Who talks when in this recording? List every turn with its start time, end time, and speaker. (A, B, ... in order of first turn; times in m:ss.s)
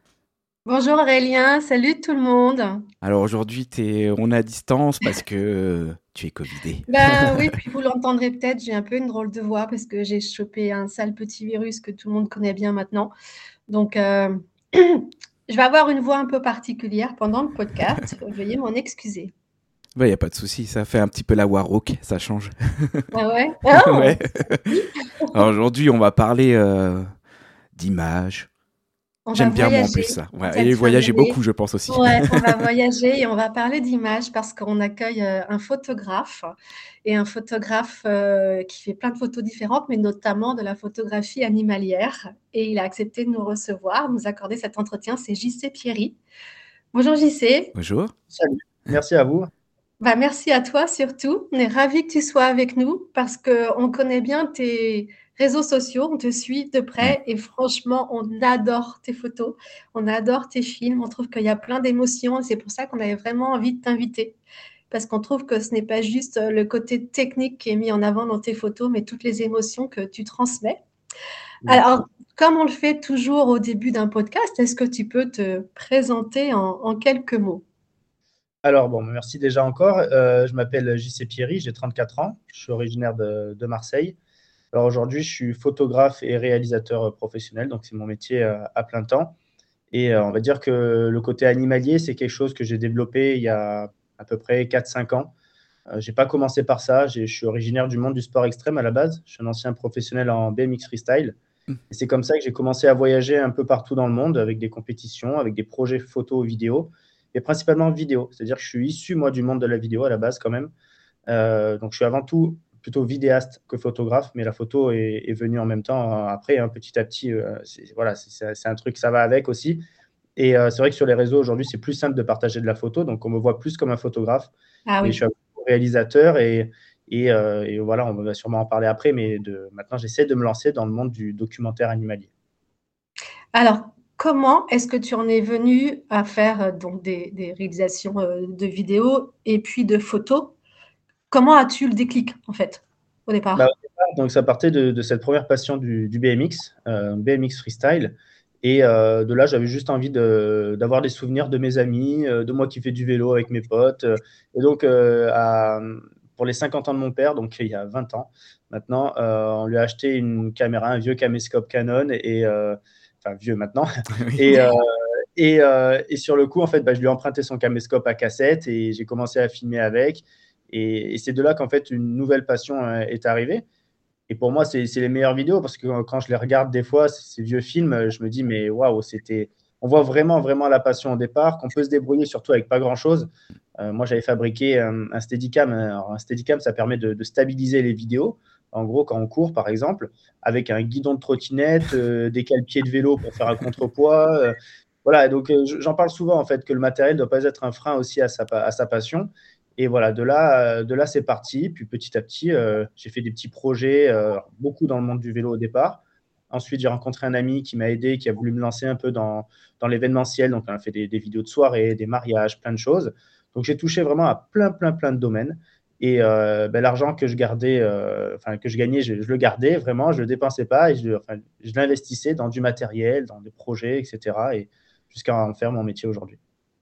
0:00.7-0:02.8 A
0:03.0-0:07.5 B
0:06.9-0:13.1 A
0:13.7-0:19.3 A
0:20.0-0:23.1 B
0:23.1-0:25.3 A
0:23.7-0:24.7 B
0:25.3-0:27.1 B
0:27.7-0:28.5 B
0:29.3-0:31.4 A
0:29.4-0:32.7 B
0:31.9-0:36.5 A
0:37.0-0:46.2 A
0:46.9-0:47.7 A
0:47.8-0:48.1 B
0:48.3-0:49.5 C
0:50.0-1:04.4 A
1:04.9-1:10.8 A
1:11.7-1:17.6 A
1:18.6-1:24.2 C
1:24.7-1:29.3 C
1:29.9-1:35.3 C
1:35.9-1:41.4 C
1:41.9-1:50.7 C
1:51.3-1:59.8 C
2:00.4-2:04.5 C
2:04.9-2:05.2 A
2:05.0-2:12.3 C
2:13.5-2:20.5 A
2:21.3-2:23.7 A
2:23.6-2:53.6 C
2:44.2-2:44.4 B
2:44.5-2:44.8 A
2:54.3-3:46.4 C